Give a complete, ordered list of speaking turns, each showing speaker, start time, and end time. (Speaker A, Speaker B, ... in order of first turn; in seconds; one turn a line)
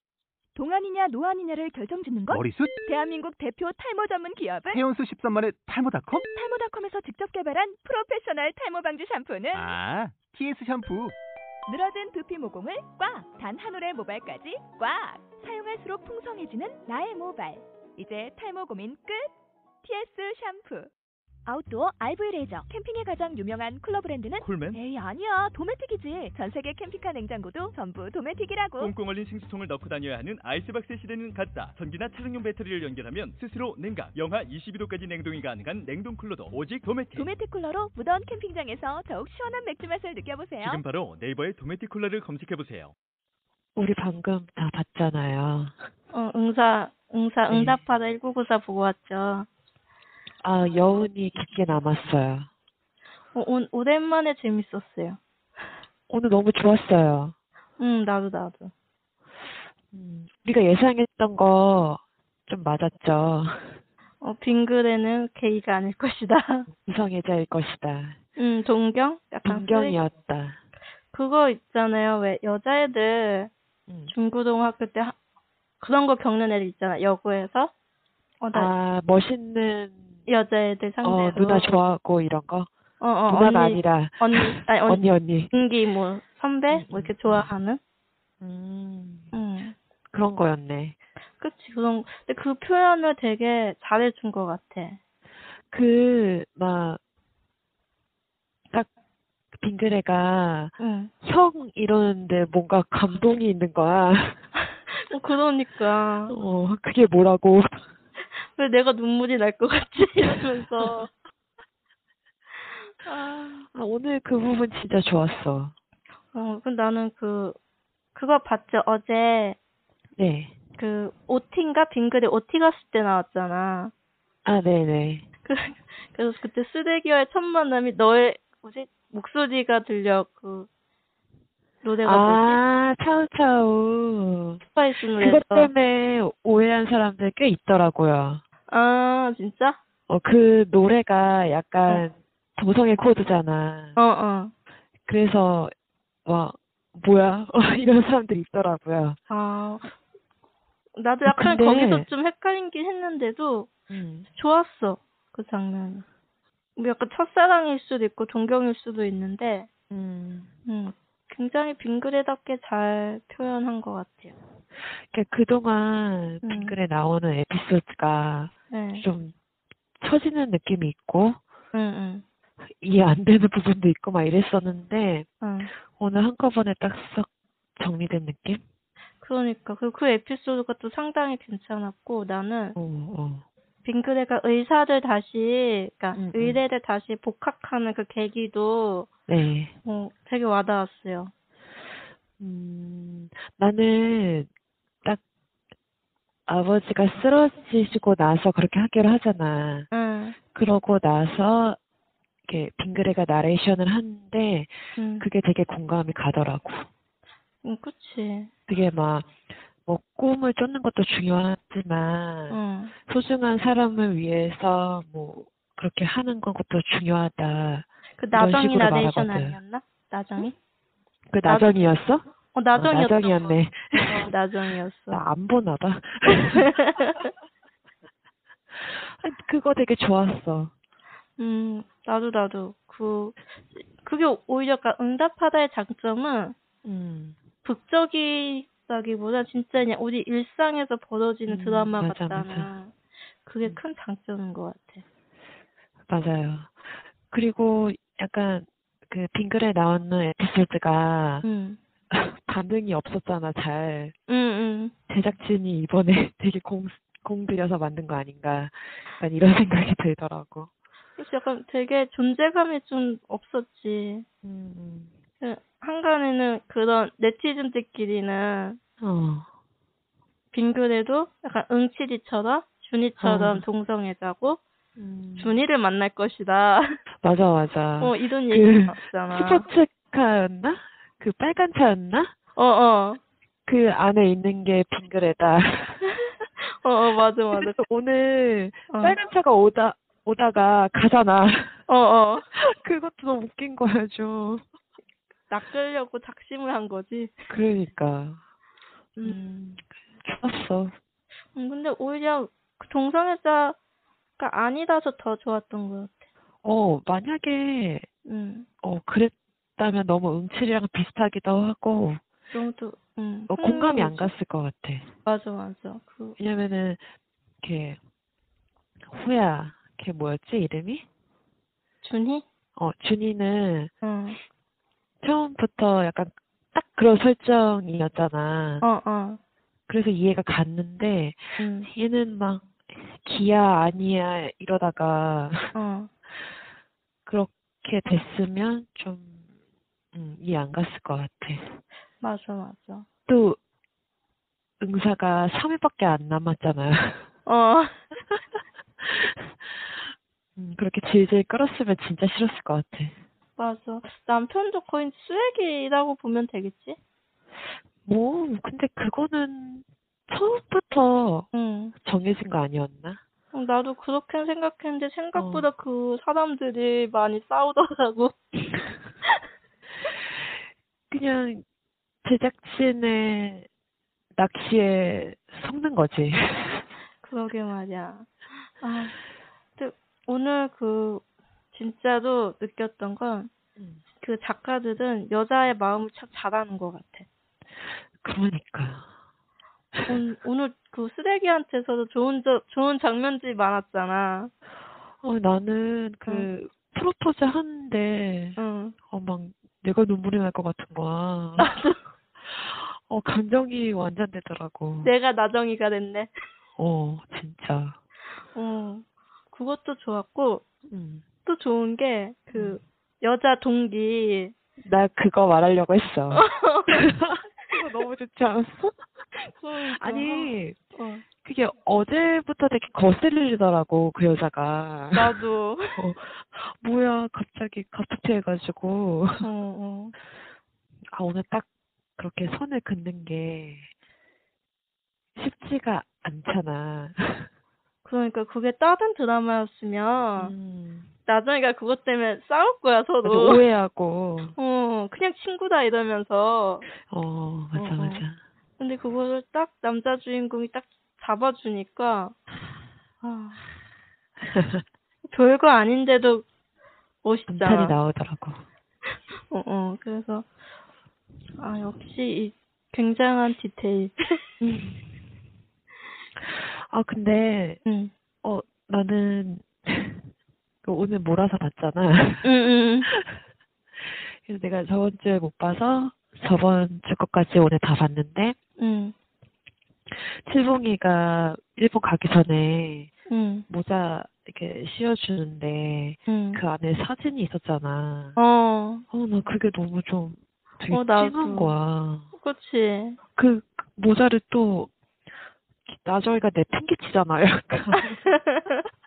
Speaker A: 0.6-4.8
Speaker B: 2.3-2.8
Speaker B: 4.7-6.2
Speaker A: 6.1-9.7
Speaker B: 9.5-11.1
Speaker A: 11.7-19.3
Speaker A: 19.8-20.9
Speaker A: 21.5-28.9
Speaker C: 24.4-24.8
Speaker C: 28.8-37.3
Speaker A: 37.1-40.8
Speaker C: 40.6-42.9
Speaker D: 43.8-45.7
Speaker E: 46.1-49.5
Speaker D: 47.5-47.8
Speaker D: 50.4-52.5
Speaker E: 53.3-55.2
Speaker D: 56.1-57.3
Speaker E: 57.8-58.7
Speaker D: 59.9-63.8
Speaker E: 64.2-66.7
Speaker D: 66.7-68.2
Speaker E: 68.4-70.0
Speaker D: 69.5-70.6
Speaker E: 71.1-73.5
Speaker D: 73.9-74.1
Speaker E: 74.1-75.2
Speaker E: 75.8-77.7
Speaker E: 78.4-78.7
Speaker D: 78.5-80.2
Speaker E: 80.3-81.7
Speaker D: 81.0-82.7
Speaker E: 83.0-87.8
Speaker D: 83.3-85.5
Speaker D: 86.7-87.5
Speaker D: 88.4-89.3
Speaker E: 89.3-89.8
Speaker D: 90.1-91.0
Speaker E: 91.4-95.0
Speaker D: 95.7-97.0
Speaker D: 99.5-104.4
Speaker E: 100.8-101.1
Speaker E: 104.9-106.3
Speaker D: 106.3-107.8
Speaker E: 108.4-111.1
Speaker D: 110.2-111.0
Speaker E: 113.0-113.7
Speaker D: 113.7-115.7
Speaker E: 116.3-117.6
Speaker E: 118.2-119.6
Speaker D: 120.2-120.5
Speaker E: 120.8-123.9
Speaker D: 124.5-125.3
Speaker E: 125.5-130.7
Speaker E: 131.8-132.6
Speaker D: 132.0-134.6
Speaker E: 134.6-135.7
Speaker D: 135.1-138.4
Speaker E: 138.7-139.8
Speaker D: 140.1-143.9
Speaker E: 143.9-144.5
Speaker D: 145.1-145.7
Speaker D: 146.2-149.2
Speaker E: 149.3-149.9
Speaker E: 150.9-153.7
Speaker D: 151.2-152.1
Speaker D: 153.9-154.3
Speaker E: 154.3-156.0
Speaker E: 156.8-159.7
Speaker D: 159.9-160.5
Speaker E: 160.7-164.3
Speaker D: 165.1-169.3
Speaker E: 166.4-166.8
Speaker E: 168.7-169.0
Speaker D: 170.0-171.4
Speaker E: 171.7-172.2
Speaker D: 172.7-175.3
Speaker E: 175.4-175.7
Speaker D: 175.9-178.6
Speaker E: 179.2-182.8
Speaker D: 182.8-183.4
Speaker E: 183.8-189.1
Speaker D: 186.1-186.6
Speaker D: 189.3-189.7
Speaker E: 189.8-191.3
Speaker D: 192.4-194.5
Speaker D: 196.5-199.9
Speaker E: 199.9-200.3
Speaker D: 200.5-201.8
Speaker D: 202.5-206.9
Speaker E: 205.0-205.2
Speaker E: 207.6-208.5
Speaker D: 208.7-209.3
Speaker D: 209.8-219.6
Speaker E: 212.5-212.9
Speaker E: 218.2-220.6
Speaker D: 221.3-224.3
Speaker E: 221.4-221.8
Speaker E: 222.5-223.5
Speaker E: 224.0-225.2
Speaker D: 225.1-226.7
Speaker E: 226.3-227.3
Speaker D: 228.8-230.7
Speaker E: 231.4-236.5
Speaker D: 236.8-237.4
Speaker E: 237.6-245.0
Speaker D: 241.5-242.7
Speaker D: 246.1-251.4
Speaker E: 251.4-251.8
Speaker D: 252.1-254.2
Speaker E: 254.3-254.9
Speaker D: 255.1-260.7
Speaker E: 261.2-264.2
Speaker D: 264.4-265.1
Speaker E: 265.4-268.8
Speaker D: 269.0-269.5
Speaker E: 270.5-274.6
Speaker D: 273.2-273.6
Speaker D: 275.0-275.6
Speaker E: 275.4-277.0
Speaker D: 277.2-282.3
Speaker E: 278.0-279.7
Speaker E: 282.6-283.2
Speaker D: 283.7-286.0
Speaker E: 286.8-287.8
Speaker D: 287.5-291.8
Speaker E: 288.9-289.2
Speaker E: 291.9-292.5
Speaker D: 292.5-294.6
Speaker E: 295.5-297.3
Speaker D: 297.5-298.4
Speaker D: 299.2-300.9
Speaker E: 301.6-303.8
Speaker E: 304.4-306.2
Speaker D: 306.6-308.1
Speaker E: 308.2-308.7
Speaker D: 308.8-312.2
Speaker E: 312.5-314.3
Speaker D: 313.5-315.1
Speaker E: 315.2-316.4
Speaker D: 316.4-317.1
Speaker D: 317.6-318.0
Speaker D: 319.0-321.1
Speaker E: 322.0-322.4
Speaker D: 322.8-323.9
Speaker E: 324.0-324.4
Speaker D: 325.2-328.9
Speaker E: 328.8-329.4
Speaker D: 329.9-335.7
Speaker E: 331.6-331.9
Speaker E: 335.8-336.1
Speaker D: 337.2-339.4
Speaker D: 340.1-341.8
Speaker E: 342.2-343.1
Speaker D: 343.3-343.6
Speaker D: 344.8-347.3
Speaker E: 347.5-348.0
Speaker D: 349.0-353.2
Speaker E: 353.6-357.0
Speaker D: 358.1-361.5
Speaker E: 361.5-361.9
Speaker D: 362.0-363.2
Speaker E: 363.5-368.4
Speaker D: 365.4-365.7
Speaker D: 371.1-371.6
Speaker D: 372.2-373.7
Speaker D: 374.4-376.9
Speaker E: 377.2-378.3
Speaker E: 378.8-379.2
Speaker E: 379.8-383.5
Speaker E: 384.2-387.3
Speaker D: 388.2-389.1
Speaker D: 389.9-390.2
Speaker E: 390.1-394.5
Speaker D: 395.2-398.6
Speaker E: 398.6-398.9
Speaker D: 399.1-401.8
Speaker E: 401.6-402.0
Speaker D: 402.4-405.1
Speaker E: 405.0-406.3
Speaker D: 406.8-408.0
Speaker E: 408.5-410.6
Speaker D: 410.9-411.2
Speaker E: 411.5-414.5
Speaker D: 412.5-412.8
Speaker D: 414.8-419.0
Speaker E: 416.3-417.1
Speaker E: 419.4-421.2
Speaker D: 420.0-420.8
Speaker D: 421.4-425.4
Speaker E: 425.1-426.1
Speaker D: 426.0-429.5
Speaker E: 429.4-430.1
Speaker D: 431.1-431.7
Speaker D: 432.2-433.9
Speaker D: 435.4-437.5
Speaker E: 438.1-440.5
Speaker D: 440.4-441.1
Speaker E: 441.2-443.6
Speaker D: 443.2-444.6
Speaker E: 444.6-446.9
Speaker D: 447.1-448.4
Speaker E: 447.8-448.2
Speaker E: 448.8-452.4
Speaker E: 453.2-453.6
Speaker D: 454.5-454.8
Speaker E: 455.3-456.4
Speaker E: 457.2-457.9
Speaker D: 457.5-458.6
Speaker E: 459.5-460.5
Speaker E: 461.6-464.1
Speaker D: 464.6-465.2
Speaker D: 466.4-467.8
Speaker E: 467.9-468.1
Speaker D: 468.4-470.3
Speaker D: 470.8-472.5
Speaker E: 472.4-473.1
Speaker D: 474.1-478.6
Speaker E: 478.8-479.1
Speaker D: 480.1-483.1
Speaker E: 483.3-483.7
Speaker D: 483.7-488.4
Speaker E: 486.3-486.6
Speaker E: 488.4-489.1
Speaker D: 489.1-492.3
Speaker E: 490.9-491.7
Speaker E: 492.3-493.2
Speaker D: 493.4-494.9
Speaker D: 495.9-498.2
Speaker E: 498.0-498.7